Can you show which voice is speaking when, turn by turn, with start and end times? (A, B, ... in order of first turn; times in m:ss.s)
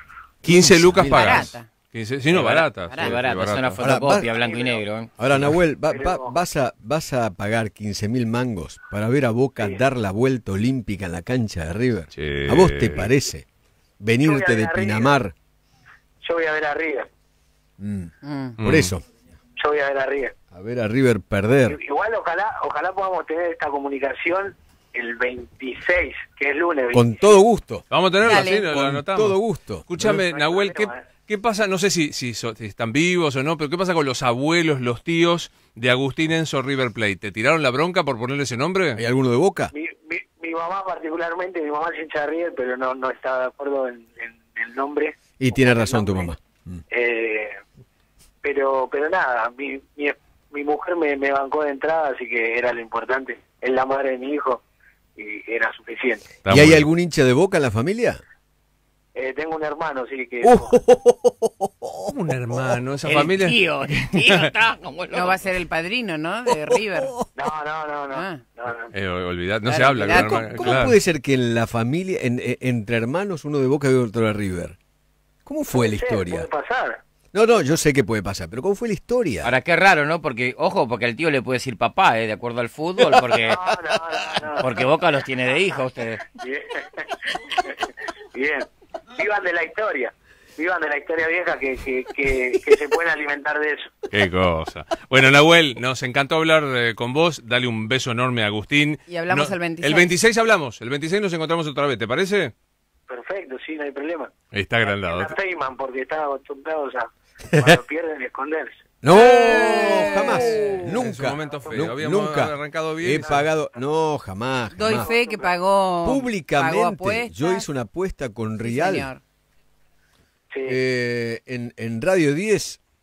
0:00.4-0:04.0 A
0:00.4-0:01.5 B
0:01.0-0:01.7 C
0:02.3-0:05.1 D
0:02.9-0:03.1 C
0:03.8-0:04.3 B
0:04.3-0:04.9 E
0:05.2-0:13.4 B
0:05.9-0:06.4 E
0:09.6-0:09.8 E
0:12.1-0:13.1 A
0:14.0-0:15.3 B
0:14.2-0:15.2 E
0:16.2-0:17.1 E
0:17.8-0:19.0 B
0:18.2-0:18.6 C
0:18.6-0:18.9 A
0:19.6-0:20.3 E
0:20.5-0:21.8 B
0:21.7-0:27.4 E
0:26.9-0:30.0 B
0:27.9-0:39.0 A
0:28.2-0:28.7 C
0:30.1-0:31.0 E
0:39.0-0:39.7 B
0:39.7-0:46.3 E
0:45.4-0:46.8 B
0:46.9-0:47.6 E
0:48.4-0:54.6 E
0:55.2-0:56.2 E
0:56.4-0:56.9 A
0:56.5-0:58.2 B
0:59.2-1:00.8 E
1:00.4-1:02.1 B
1:02.1-1:03.6 A
1:03.0-1:05.5 D
1:05.1-1:07.1 C
1:07.4-1:08.9 E
1:08.1-1:08.4 C
1:08.9-1:11.0 A
1:09.7-1:10.8 C
1:10.2-1:14.8 B
1:15.4-1:16.5 B
1:15.7-1:17.0 E
1:17.3-1:19.5 B
1:19.4-1:23.6 D
1:23.1-1:24.9 E
1:24.6-1:26.2 D
1:26.4-1:27.0 E
1:28.3-1:33.9 E
1:34.1-1:42.5 A
1:39.1-1:40.1 C
1:43.1-1:44.3 E
1:44.5-1:45.3 A
1:44.8-1:48.8 E
1:49.0-1:55.1 B
1:49.1-1:50.9 C
1:50.1-1:53.4 A
1:51.2-1:51.9 E
1:53.2-1:53.8 E
1:54.7-1:57.7 C
1:54.8-1:55.5 E
1:56.0-1:59.1 B
1:58.6-1:59.2 C
2:00.5-2:00.8 E
2:00.7-2:02.8 B